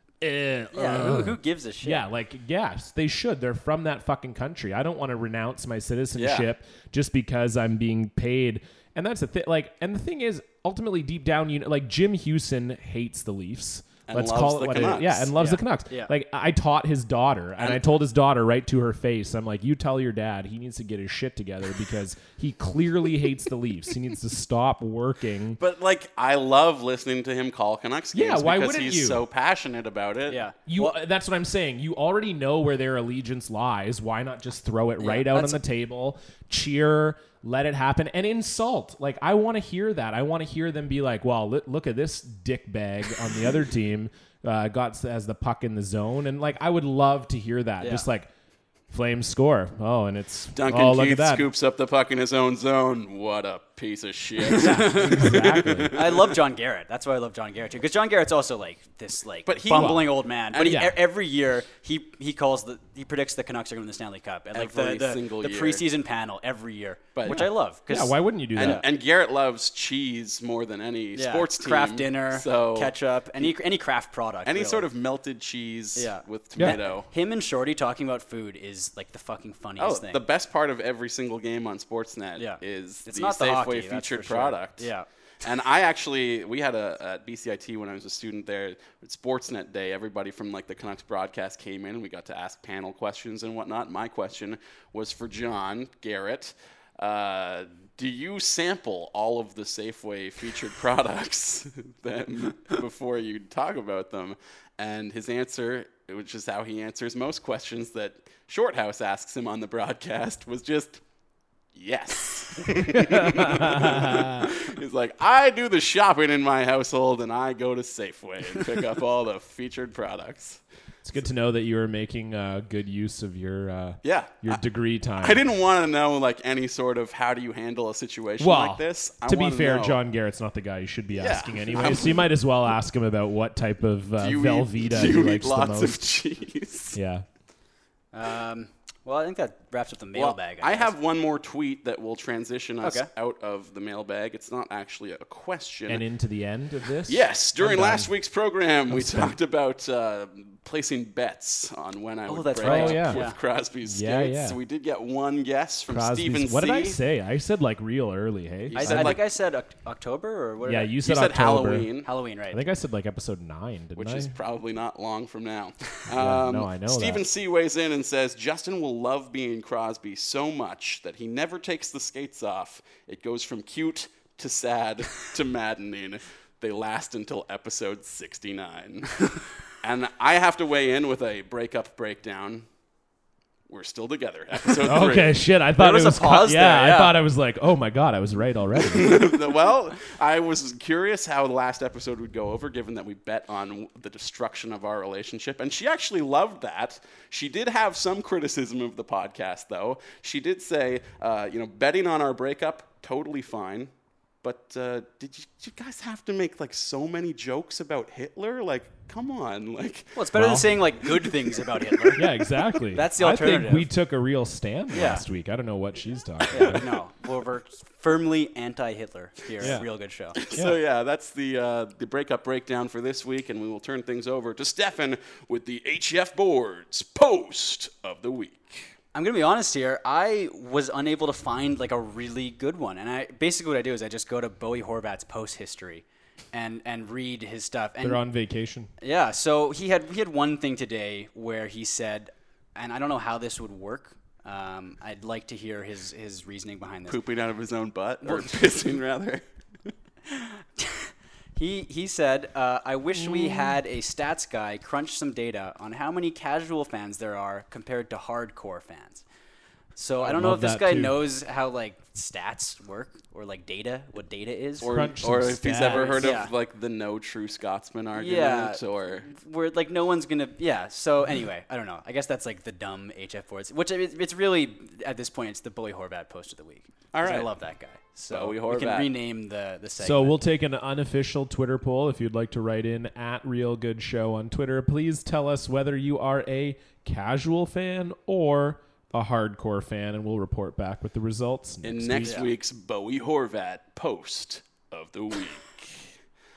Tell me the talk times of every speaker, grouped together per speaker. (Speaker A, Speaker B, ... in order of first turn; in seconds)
Speaker A: 0.2-25.6, 28.1-29.2, 30.7-48.3, 48.9-51.5, 54.7-56.0, 59.7-60.0, 60.6-60.9, 67.3-68.8, 112.9-114.5, 121.0-125.4, 128.4-136.0, 136.9-137.2, 145.9-148.1, 148.9-149.3, 152.6-153.3, 153.8-154.6, 155.9-159.2, 160.7-161.9, 162.5-164.3, 166.1-167.2, 184.8-189.4, 210.3-210.8, 212.2-217.0, 219.6-219.9, 238.0-238.9, 253.2-253.8, 260.2-261.2, 264.8-266.4, 280.0-292.5
Speaker B: 0.7-2.0, 15.4-16.1, 30.3-30.9, 35.0-35.6, 47.8-48.1, 54.5-55.4, 55.9-68.9, 71.2-74.9, 76.0-80.2, 82.4-85.1, 138.1-140.9, 142.8-143.1, 152.3-153.4, 158.7-160.9, 162.1-162.6, 185.8-187.2, 210.2-212.2, 212.9-213.9, 214.9-215.2, 216.5-220.4, 229.1-238.2, 239.0-247.2, 248.2-248.6, 250.3-259.2, 260.0-265.1, 265.8-266.5, 268.1-280.4, 292.2-292.5
Speaker C: 6.2-6.5, 14.1-15.3, 25.6-30.4, 50.5-56.4, 59.5-60.9, 64.5-65.8, 67.2-67.5, 68.5-73.5, 74.5-77.1, 79.8-84.9, 85.4-111.0, 111.8-120.6, 124.0-124.6, 125.2-130.0, 131.1-132.3, 134.2-137.0, 140.1-146.0, 147.1-157.0, 158.7-159.2, 161.0-162.1, 164.0-182.7, 183.7-185.4, 188.8-203.9, 204.4-210.3, 211.9-212.2, 220.4-228.9, 247.1-249.4, 264.8-269.3, 277.1-277.5, 278.3-279.2, 291.8-296.1